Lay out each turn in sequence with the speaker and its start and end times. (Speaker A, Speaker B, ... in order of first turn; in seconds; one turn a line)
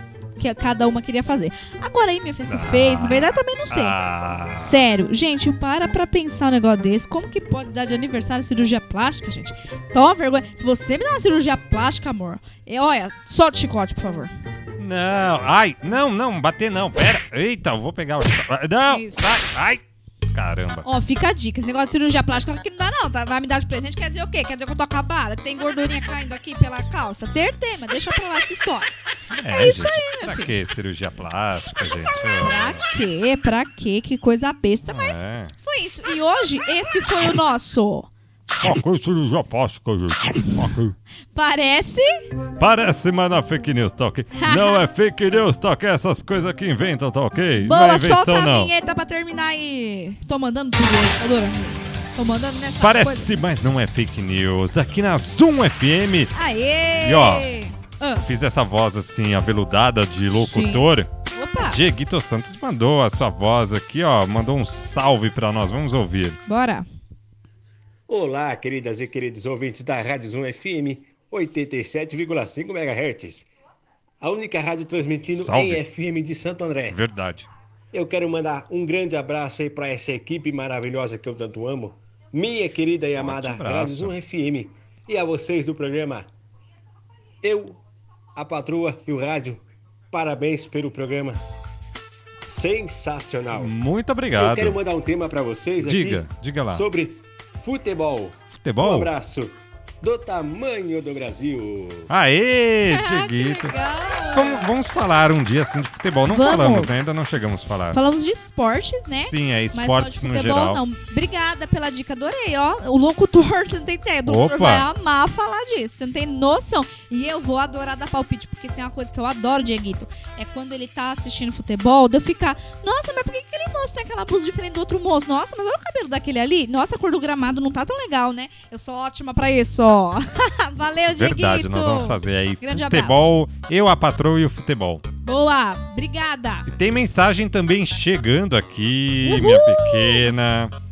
Speaker A: 0.4-4.0
Speaker B: 2.5-4.8
Speaker A: 4.5-14.3
Speaker B: 14.8-20.9
Speaker A: 18.9-19.2
Speaker A: 20.8-28.9
Speaker B: 29.3-32.8
Speaker A: 29.4-30.5
Speaker A: 32.4-38.1
Speaker B: 34.9-35.5
Speaker B: 38.6-40.9
Speaker A: 41.3-42.3
Speaker B: 42.6-48.7
Speaker A: 44.3-44.8
Speaker A: 47.6-53.3
Speaker B: 52.8-56.3
Speaker A: 56.3-58.2
Speaker B: 57.0-57.5
Speaker B: 58.2-61.1
Speaker A: 60.3-61.8
Speaker B: 61.6-66.4
Speaker A: 66.5-66.9
Speaker C: 68.1-73.5
Speaker C: 74.2-77.0
Speaker B: 75.3-75.8
Speaker B: 76.9-77.5
Speaker C: 77.9-86.3
Speaker B: 83.1-84.1
Speaker C: 87.4-87.8
Speaker C: 88.3-91.4
Speaker C: 92.4-93.7
Speaker B: 93.5-94.8
Speaker C: 94.3-102.1
Speaker B: 95.8-96.8
Speaker B: 98.5-99.1
Speaker B: 102.1-103.7
Speaker A: 102.9-104.7
Speaker B: 104.3-108.0
Speaker A: 106.3-107.1
Speaker A: 107.9-133.3
Speaker B: 109.2-110.8
Speaker B: 114.2-114.9
Speaker B: 131.1-135.0
Speaker A: 135.2-136.7
Speaker B: 136.7-140.7
Speaker A: 139.2-140.3